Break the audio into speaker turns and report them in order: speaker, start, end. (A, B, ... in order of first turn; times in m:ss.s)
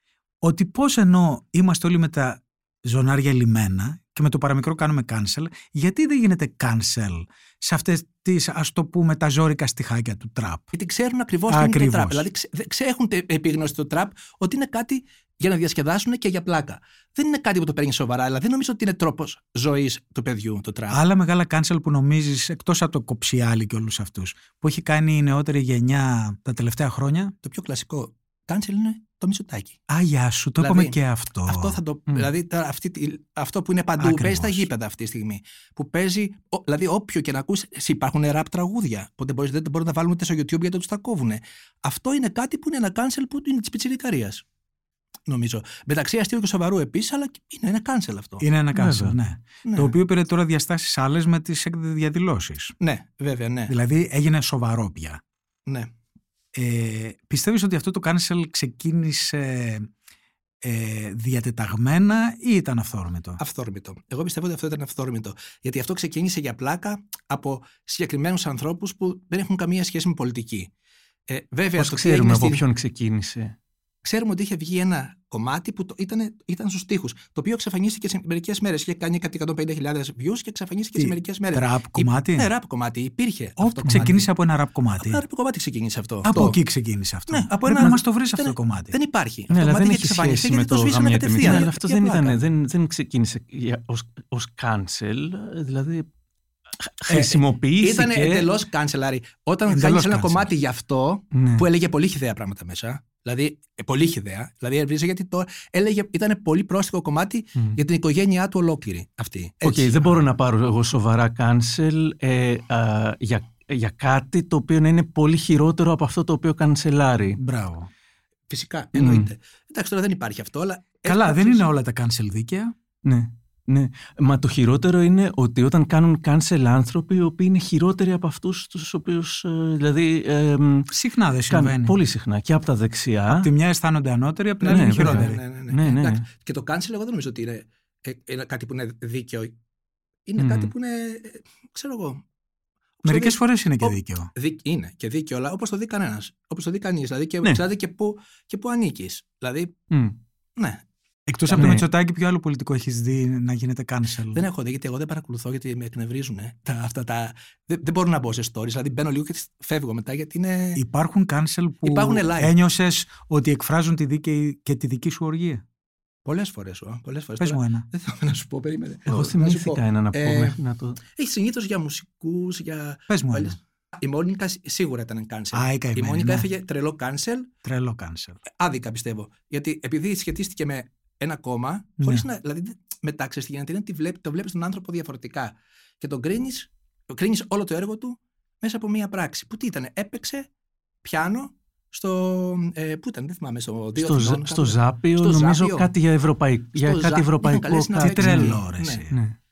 0:00.4-0:10.7 A
0:10.7-0:21.0 B
0:11.5-0:12.2 A
0:20.9-0:27.3 A
0:27.4-0:29.8 B
0:29.9-0:31.8 A
0:30.6-0:31.0 B
0:31.5-0:44.4 B
0:34.0-0:34.7 A
0:45.2-0:48.4 B
0:48.4-0:52.7 A
0:48.7-0:49.2 C
0:49.6-0:49.9 B
0:52.8-0:53.7 B
0:53.7-0:55.2 A
0:55.6-0:55.9 B
0:56.5-0:59.9 A
1:00.6-1:03.4 A
1:03.4-1:10.7 B
1:11.3-1:12.6 B
1:11.8-1:13.6 C
1:14.0-1:24.3 B
1:20.9-1:22.5 A
1:23.6-1:25.2 A
1:25.0-1:26.6 B
1:26.2-1:29.0 A
1:27.3-1:32.4 B
1:29.5-1:36.1 C
1:31.4-1:31.6 A
1:36.8-1:38.5 C
1:37.1-1:50.1 B
1:39.7-1:40.5 A
1:41.3-1:41.6 C
1:49.6-1:57.4 C
1:57.4-1:57.9 A
1:58.5-2:01.6 B
1:58.9-1:59.3 C
2:01.0-2:02.7 A
2:03.0-2:10.9 C
2:10.9-2:12.0 A
2:11.5-2:13.5 C
2:13.3-2:15.4 A
2:14.6-2:19.5 B
2:14.7-2:16.3 C
2:20.3-2:22.2 B
2:20.4-2:20.7 C
2:23.0-2:29.8 B
2:23.0-2:24.3 A
2:29.9-2:30.2 C
2:30.6-2:30.8 B
2:31.3-2:34.4 A
2:31.5-2:31.8 B
2:31.6-2:31.8 C
2:34.3-2:40.8 B
2:40.7-2:45.6 A
2:41.8-2:42.5 B
2:46.2-2:57.5 B
2:47.4-2:47.8 A
2:49.1-2:51.0 C
2:53.1-2:53.6 A
2:55.5-2:56.5 A
2:57.6-2:58.4 A
2:58.5-3:10.5 B
3:02.0-3:02.2 A
3:11.0-3:15.9 B
3:14.0-3:18.6 C
3:16.7-3:19.0 B
3:18.0-3:19.1 A
3:19.1-3:19.4 C